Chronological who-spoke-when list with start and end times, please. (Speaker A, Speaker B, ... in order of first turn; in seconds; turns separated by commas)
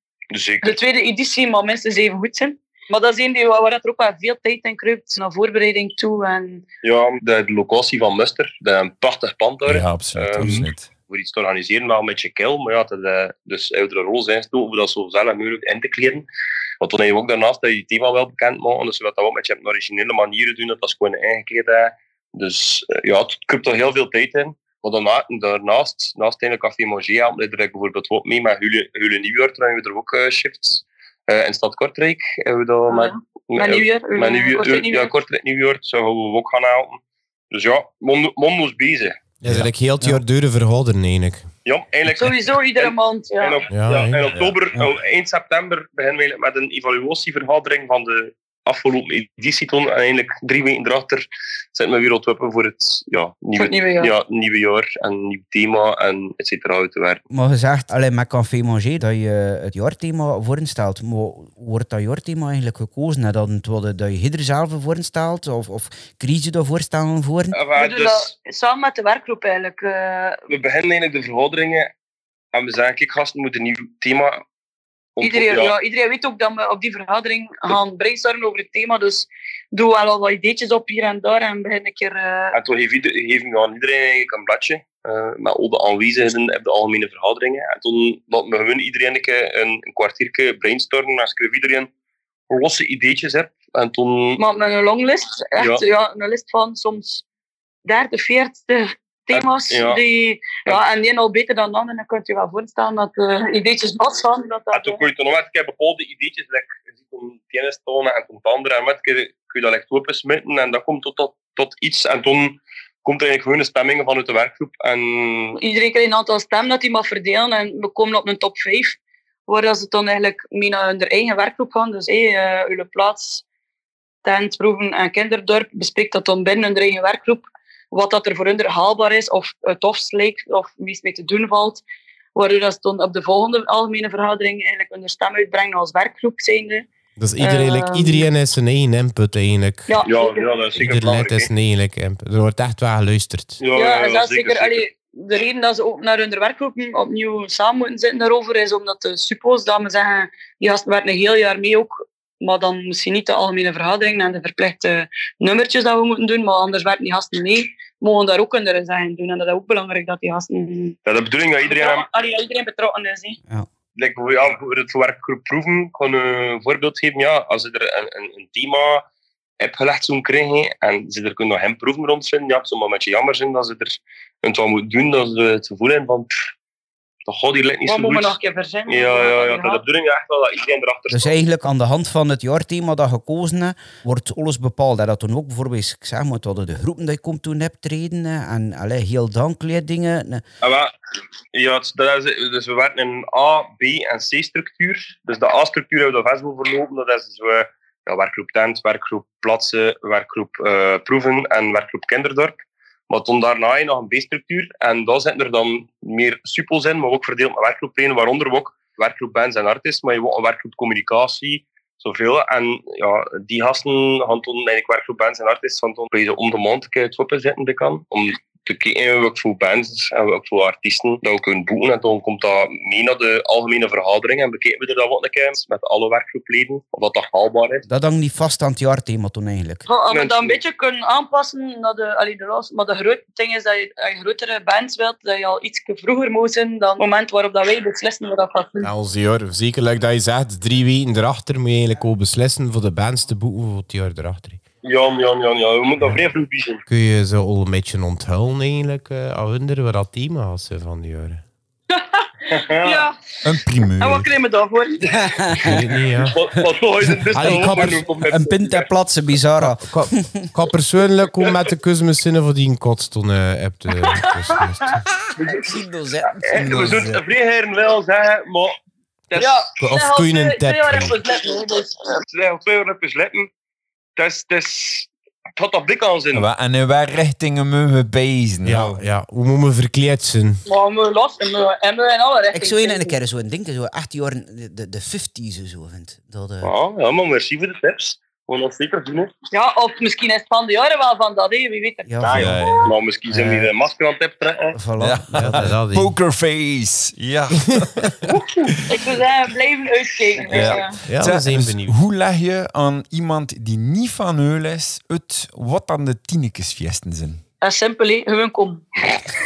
Speaker A: 0.3-0.8, Speaker B: 0.6-6.6, Speaker A: 6.8-16.3, Speaker C: 9.7-10.9, Speaker A: 16.8-37.0, Speaker B: 32.9-35.1, Speaker A: 37.5-39.2, Speaker D: 39.4-41.5, Speaker C: 39.4-39.7, Speaker A: 41.6-57.2, Speaker B: 42.1-43.6, Speaker D: 43.7-44.2, Speaker B: 53.5-54.1, Speaker E: 57.3-67.6, Speaker A: 67.5-68.3, Speaker B: 67.8-70.5, Speaker A: 70.5-71.9, Speaker A: 72.5-74.4, Speaker A: 75.2-75.7, Speaker B: 75.2-82.6, Speaker A: 82.5-91.9, Speaker A: 92.5-94.4, Speaker B: 94.4-97.2, Speaker A: 95.6-95.8, Speaker B: 97.8-105.0, Speaker A: 99.3-100.0, Speaker A: 104.7-115.6, Speaker B: 115.6-123.4, Speaker B: 124.2-131.8, Speaker B: 132.3-136.9, Speaker D: 137.2-140.0, Speaker B: 137.4-138.3, Speaker B: 139.9-140.5, Speaker A: 140.1-141.5, Speaker D: 140.8-143.6, Speaker A: 143.6-144.8, Speaker B: 143.8-161.0, Speaker A: 161.1-162.1, Speaker B: 161.6-163.4, Speaker A: 164.0-169.1, Speaker A: 169.6-176.5, Speaker A: 177.2-178.3, Speaker B: 177.9-179.8, Speaker A: 178.9-181.4, Speaker E: 181.1-190.4, Speaker A: 190.6-190.9, Speaker A: 191.5-227.8, Speaker E: 227.9-229.9, Speaker B: 229.9-238.9, Speaker A: 230.1-230.6, Speaker D: 238.8-244.6, Speaker A: 244.8-246.8, Speaker D: 246.9-251.4, Speaker B: 251.9-253.2, Speaker A: 252.5-253.1, Speaker C: 253.4-254.3, Speaker B: 254.0-255.1, Speaker E: 255.2-255.8, Speaker D: 255.6-256.4, Speaker A: 255.7-258.9, Speaker E: 257.1-260.5, Speaker D: 257.3-258.0, Speaker D: 259.6-265.0, Speaker A: 265.4-265.7, Speaker E: 265.4-267.2, Speaker A: 266.3-268.8, Speaker A: 269.3-269.7, Speaker B: 269.4-272.2, Speaker D: 269.8-271.1, Speaker A: 272.3-273.5, Speaker A: 274.2-276.5, Speaker C: 276.3-279.1, Speaker D: 278.6-280.6, Speaker B: 280.7-283.1, Speaker E: 282.5-286.7, Speaker A: 286.6-289.3, Speaker B: 289.5-292.9, Speaker E: 292.1-292.8, Speaker A: 292.2-294.8, Speaker C: 292.3-292.9, Speaker E: 293.3-293.7, Speaker E: 294.8-295.7, Speaker C: 295.0-299.0, Speaker D: 295.4-296.1, Speaker B: 298.9-301.0, Speaker C: 300.5-307.4, Speaker D: 301.1-302.0, Speaker B: 307.6-308.9